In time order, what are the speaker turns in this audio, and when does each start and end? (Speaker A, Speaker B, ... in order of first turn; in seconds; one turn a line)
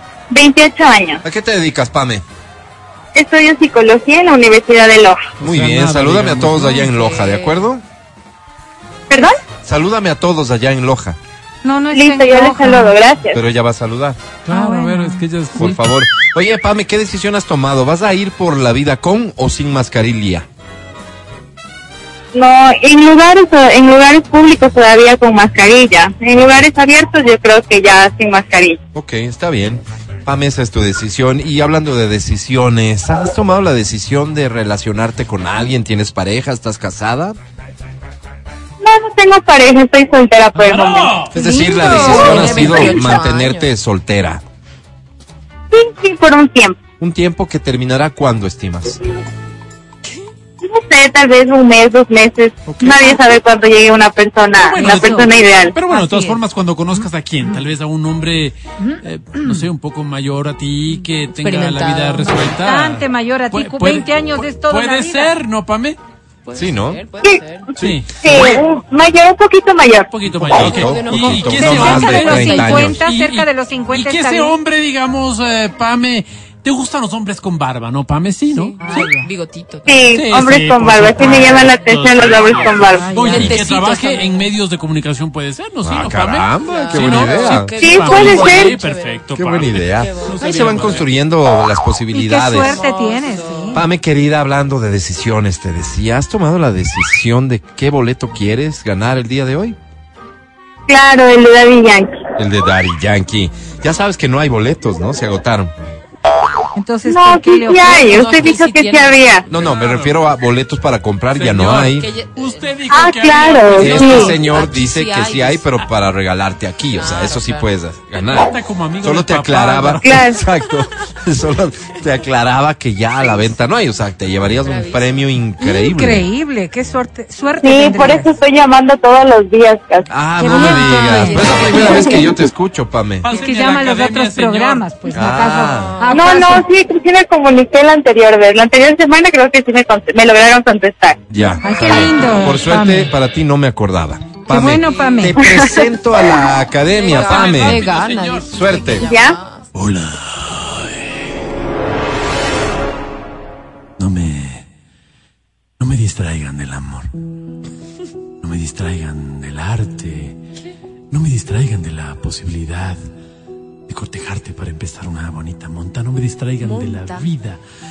Speaker A: 0.3-1.2
Speaker B: 1.2-2.2
Speaker A: 3.1-5.2
Speaker C: 5.4-7.2
Speaker B: 5.4-7.8
Speaker A: 9.1-9.4
Speaker B: 9.6-11.2
Speaker D: 11.6-13.0
Speaker A: 11.9-13.4
Speaker B: 13.3-14.2
Speaker C: 14.5-15.8
Speaker D: 14.5-15.3
Speaker B: 15.6-20.5
Speaker A: 22.3-28.8
Speaker B: 28.9-37.4
Speaker A: 38.8-41.2
Speaker C: 40.5-41.3
Speaker B: 41.3-44.4
Speaker D: 41.3-42.9
Speaker E: 41.7-43.7
Speaker A: 45.7-46.8
Speaker B: 47.0-49.0
Speaker A: 50.6-55.8
Speaker C: 52.7-53.2
Speaker D: 54.6-55.3
Speaker C: 55.7-66.0
Speaker D: 55.9-56.4
Speaker D: 57.0-57.6
Speaker D: 58.8-59.6
Speaker E: 61.0-62.4
Speaker D: 62.2-65.3
Speaker E: 66.5-67.7
Speaker B: 66.5-67.0
Speaker C: 67.8-68.4
Speaker B: 67.8-68.4
Speaker A: 68.2-70.1
Speaker C: 70.1-79.1
Speaker B: 70.4-73.0
Speaker E: 70.5-72.5
Speaker D: 71.5-74.6
Speaker E: 78.5-80.2
Speaker D: 78.8-79.3
Speaker A: 79.9-83.1
Speaker C: 80.1-91.1
Speaker E: 81.3-81.6
Speaker E: 82.4-84.3
Speaker D: 83.0-83.5
Speaker B: 85.8-87.7
Speaker E: 86.6-91.0
Speaker A: 87.8-88.8
Speaker B: 89.3-92.8
Speaker D: 92.1-93.8
Speaker E: 92.4-93.8
Speaker B: 93.7-99.8
Speaker A: 100.9-102.2
Speaker B: 102.4-105.7
Speaker D: 106.8-108.1
Speaker A: 107.1-109.5
Speaker E: 107.8-109.8
Speaker B: 109.5-112.1
Speaker C: 109.6-110.3
Speaker C: 111.3-114.4
Speaker E: 111.9-115.8
Speaker A: 112.9-114.3
Speaker B: 113.8-126.3
Speaker E: 116.9-117.7
Speaker C: 118.3-120.4
Speaker A: 120.0-120.4
Speaker E: 124.5-125.3
Speaker D: 125.6-128.3
Speaker A: 127.6-130.1
Speaker B: 130.1-133.3
Speaker D: 130.4-132.2
Speaker E: 131.3-132.0
Speaker C: 133.2-134.9
Speaker D: 133.3-136.7
Speaker B: 135.1-136.0
Speaker E: 135.5-136.6
Speaker A: 136.1-141.3
Speaker B: 141.3-147.9
Speaker E: 141.6-142.5
Speaker D: 141.6-143.1
Speaker D: 144.5-145.5
Speaker E: 144.8-145.4
Speaker E: 146.8-149.7
Speaker C: 147.0-149.0
Speaker B: 148.5-149.1
Speaker A: 149.0-149.4
Speaker C: 149.7-151.0
Speaker C: 154.0-154.7
Speaker C: 155.8-157.1
Speaker C: 158.4-160.4
Speaker C: 161.1-163.0
Speaker C: 163.9-167.6
Speaker E: 166.6-167.3